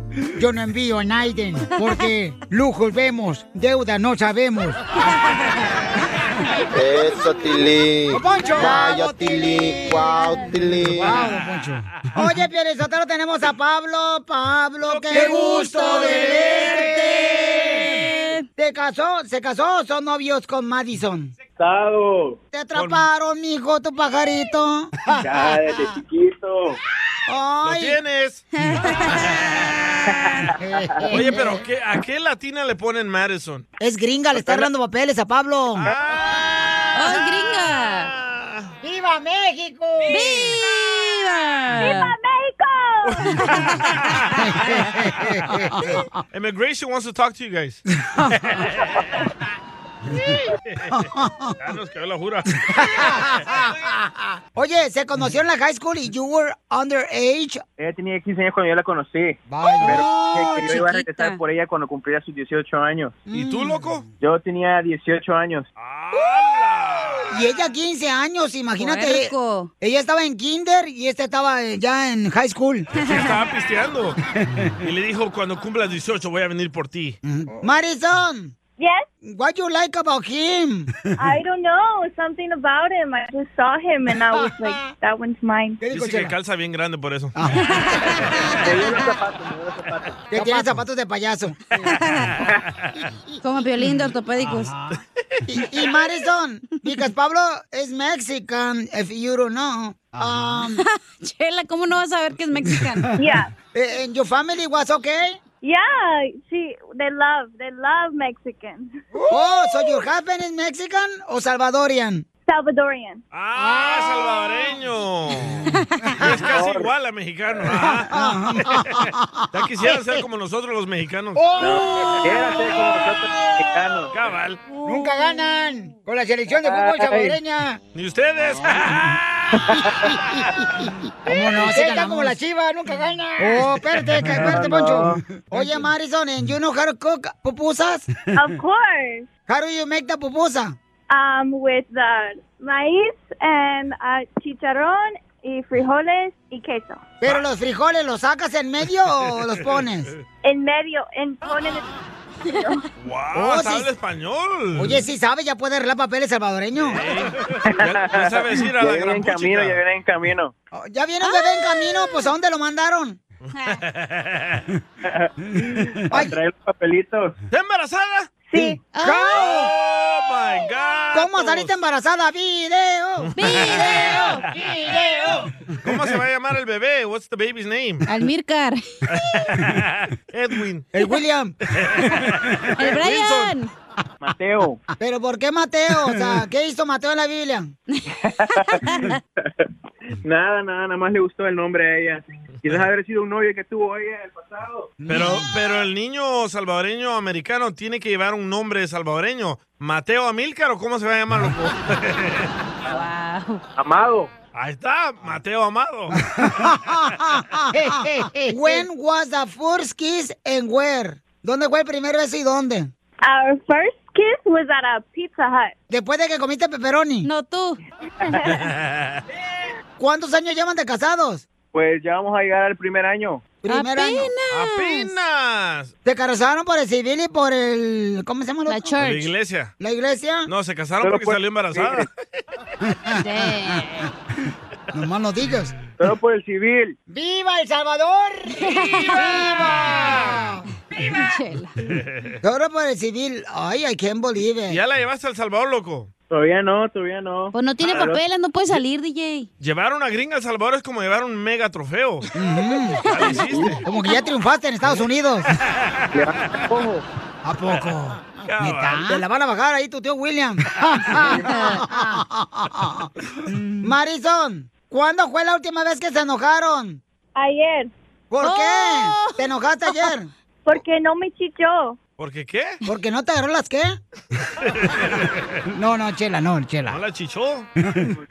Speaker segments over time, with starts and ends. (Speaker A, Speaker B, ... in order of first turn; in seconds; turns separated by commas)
Speaker A: 0.4-4.8, Speaker B: 6.7-11.1, Speaker A: 8.1-10.2, Speaker A: 10.8-17.9, Speaker C: 14.8-16.9, Speaker D: 15.1-18.4, Speaker A: 18.6-21.3, Speaker E: 21.6-22.4, Speaker A: 22.5-25.0, Speaker C: 22.8-23.1, Speaker E: 25.1-26.8, Speaker A: 27.3-28.0, Speaker C: 27.6-28.4, Speaker D: 28.6-29.4, Speaker C: 29.5-29.9, Speaker E: 30.1-31.2, Speaker A: 30.6-31.6, Speaker C: 31.1-33.7, Speaker A: 33.8-35.9, Speaker C: 35.8-38.7, Speaker D: 36.9-38.1, Speaker A: 38.8-40.5, Speaker D: 40.1-42.1, Speaker F: 41.7-43.5, Speaker C: 43.0-44.5, Speaker A: 44.3-46.1, Speaker C: 46.3-49.0, Speaker A: 48.1-48.5, Speaker C: 50.7-51.1, Speaker A: 50.9-51.6, Speaker C: 51.6-53.6, Speaker A: 52.8-53.9, Speaker A: 54.5-57.6, Speaker E: 57.8-63.2, Speaker A: 59.5-60.4, Speaker D: 59.8-61.4, Speaker A: 63.3-63.9, Speaker C: 63.3-64.0, Speaker E: 64.2-65.7, Speaker C: 65.8-67.4, Speaker A: 67.3-72.9, Speaker D: 68.8-69.7, Speaker C: 72.9-74.2, Speaker D: 73.0-73.3, Speaker C: 74.8-77.2, Speaker A: 77.2-78.5, Speaker F: 78.8-79.1, Speaker A: 79.2-81.0, Speaker F: 81.2-85.8, Speaker A: 85.8-86.3, Speaker C: 85.9-87.3, Speaker A: 87.4-87.8, Speaker D: 87.7-88.8, Speaker E: 88.6-90.5, Speaker A: 90.3-91.8, Speaker D: 91.8-92.3, Speaker C: 92.5-92.9, Speaker D: 93.4-94.7, Speaker A: 95.5-100.8, Speaker D: 100.8-103.1, Speaker F: 103.2-103.5, Speaker A: 103.7-105.4, Speaker F: 105.6-108.9, Speaker A: 109.3-112.3, Speaker F: 112.5-113.2, Speaker C: 113.3-121.5, Speaker A: 113.6-114.1, Speaker A: 116.1-116.4, Speaker E: 116.3-116.9, Speaker A: 117.7-120.0, Speaker A: 121.4-122.6, Speaker E: 121.6-124.1, Speaker C: 124.1-124.6, Speaker A: 124.8-127.8, Speaker E: 126.5-127.4, Speaker C: 127.9-129.6, Speaker E: 129.6-130.2, Speaker A: 131.3-138.1, Speaker E: 134.2-135.2, Speaker F: 138.3-139.3, Speaker A: 139.5-140.8, Speaker F: 141.1-147.1, Speaker A: 147.2-150.1, Speaker F: 150.4-152.8, Speaker C: 153.0-155.0, Speaker A: 153.3-153.9, Speaker A: 154.8-157.0, Speaker C: 156.9-159.8, Speaker E: 157.7-160.5, Speaker A: 160.7-163.2, Speaker D: 161.2-162.3, Speaker C: 163.5-164.7, Speaker D: 163.6-163.8, Speaker E: 165.1-167.3, Speaker C: 167.5-168.3, Speaker F: 168.5-168.8, Speaker A: 168.5-169.7, Speaker D: 168.9-169.5, Speaker C: 169.3-171.7, Speaker A: 171.1-175.4, Speaker C: 173.2-174.2, Speaker D: 173.4-174.5, Speaker C: 175.8-178.1, Speaker D: 178.1-178.8, Speaker C: 179.1-180.9, Speaker A: 180.9-181.6, Speaker C: 181.7-183.5, Speaker D: 182.8-183.7, Speaker E: 184.2-184.8, Speaker A: 185.0-187.7, Speaker E: 188.1-189.2, Speaker D: 188.9-189.1, Speaker E: 190.2-194.9, Speaker A: 195.0-195.5, Speaker C: 195.1-202.5, Speaker D: 202.9-203.6, Speaker E: 203.8-204.3, Speaker C: 204.5-206.3, Speaker A: 206.4-212.9, Speaker F: 213.2-215.7, Speaker A: 215.9-217.3, Speaker D: 217.2-217.8, Speaker C: 218.7-219.2, Speaker A: 220.0-221.4, Speaker E: 221.7-223.5, Speaker A: 223.6-224.3, Speaker D: 223.7-225.1, Speaker C: 224.5-225.9, Speaker A: 226.1-229.0, Speaker D: 228.7-229.3, Speaker C: 229.0-229.7, Speaker A: 229.8-230.5, Speaker C: 230.5-232.1, Speaker E: 231.0-232.1, Speaker D: 233.2-234.1, Speaker A: 234.9-235.8, Speaker E: 236.0-236.9, Speaker A: 237.1-240.6, Speaker D: 238.6-239.6, Speaker C: 240.0-240.3, Speaker D: 241.0-241.8, Speaker C: 241.9-242.4, Speaker A: 242.4-244.8, Speaker C: 244.7-246.1, Speaker E: 246.3-248.2, Speaker D: 247.5-249.5, Speaker C: 249.6-252.3, Speaker A: 252.3-253.0, Speaker C: 253.1-253.8, Speaker D: 253.1-253.4, Speaker E: 253.4-253.8, Speaker A: 253.8-255.5, Speaker C: 255.7-256.1, Speaker E: 256.1-257.0, Speaker A: 257.4-263.1, Speaker C: 258.4-259.2, Speaker D: 261.5-261.8, Speaker A: 263.8-267.0, Speaker F: 267.4-267.9, Speaker A: 268.3-270.3, Speaker D: 268.4-270.0, Speaker F: 270.6-272.0, Speaker C: 272.2-272.8, Speaker A: 272.9-274.0, Speaker C: 274.6-275.5, Speaker A: 275.7-277.0, Speaker C: 276.9-277.7